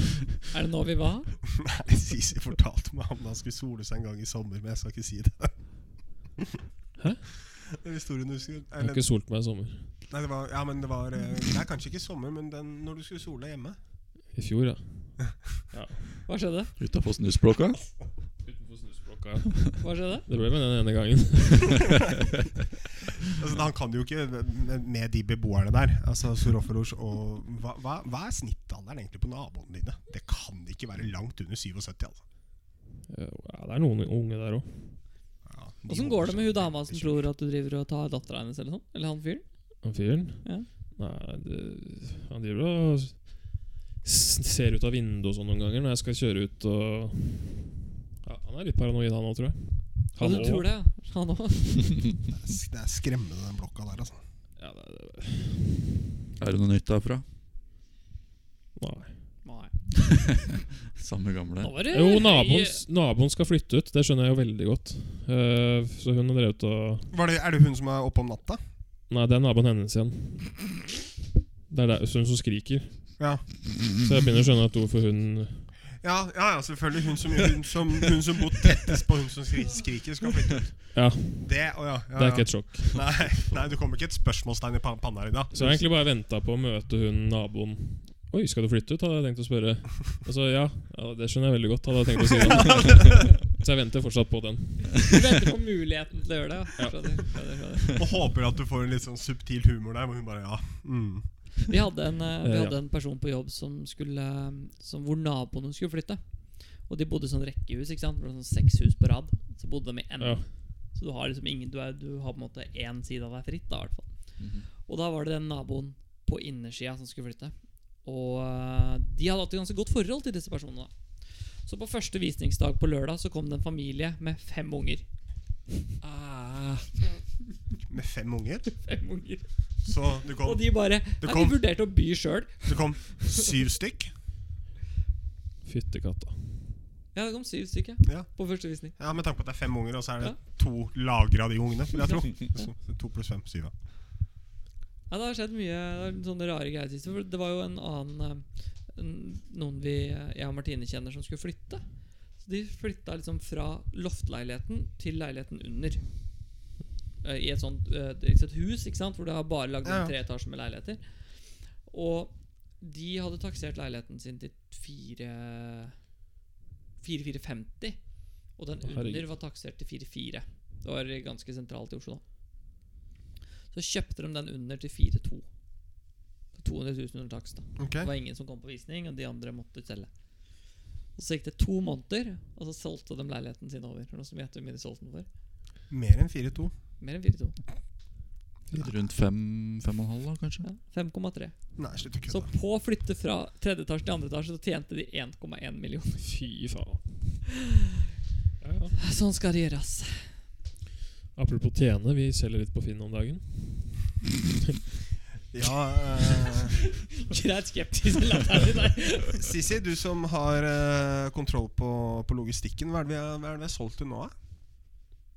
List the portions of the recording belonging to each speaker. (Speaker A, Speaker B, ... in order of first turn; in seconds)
Speaker A: 0.5-1.3, 16.3-16.7, 19.8-20.3, 35.9-39.5, 40.4-40.7, 50.2-51.9, 59.4-59.7, 61.6-62.8, 95.0-98.0, 101.7-106.2, 106.9-114.1, 114.8-120.9, 121.6-125.0, 126.0-127.2, 128.7-129.5, 130.4-133.4, 137.1-138.9, 142.0-142.7, 145.1-151.8, 152.4-156.0, 157.2-161.0, 161.9-166.0, 167.0-172.2, 173.7-175.5, 176.5-180.1, 181.2-185.3, 187.0-187.6, 190.6-196.3, 199.0-200.3, 206.4-209.4
Speaker B: 1.6-5.7, 7.7-9.1, 10.1-13.8, 23.3-32.2, 35.5-37.3, 52.3-54.2, 67.1-68.6, 73.2-73.4, 76.0-85.8, 92.5-93.3, 97.9-101.3, 127.9-128.7, 129.8-131.6, 132.7-134.1, 138.0-143.7, 159.8-160.1, 177.8-178.1, 185.9-186.7, 191.8-192.5, 205.5-206.8, 209.3-214.3
Speaker C: 7.0-7.3, 8.8-9.9, 14.3-16.1, 18.4-22.1, 33.1-35.0, 39.8-50.7, 54.6-55.8, 58.8-59.2, 61.9-67.1, 69.1-70.7, 71.7-75.7, 80.9-83.2, 85.5-95.2, 96.8-97.1, 102.4-102.8, 110.2-110.5, 135.6-136.7, 168.8-169.3, 196.2-197.4, 198.6-199.0, 201.3-204.1
Speaker D: 16.8-17.8, 56.4-57.2, 60.4-61.7, 114.4-114.7, 188.8-190.7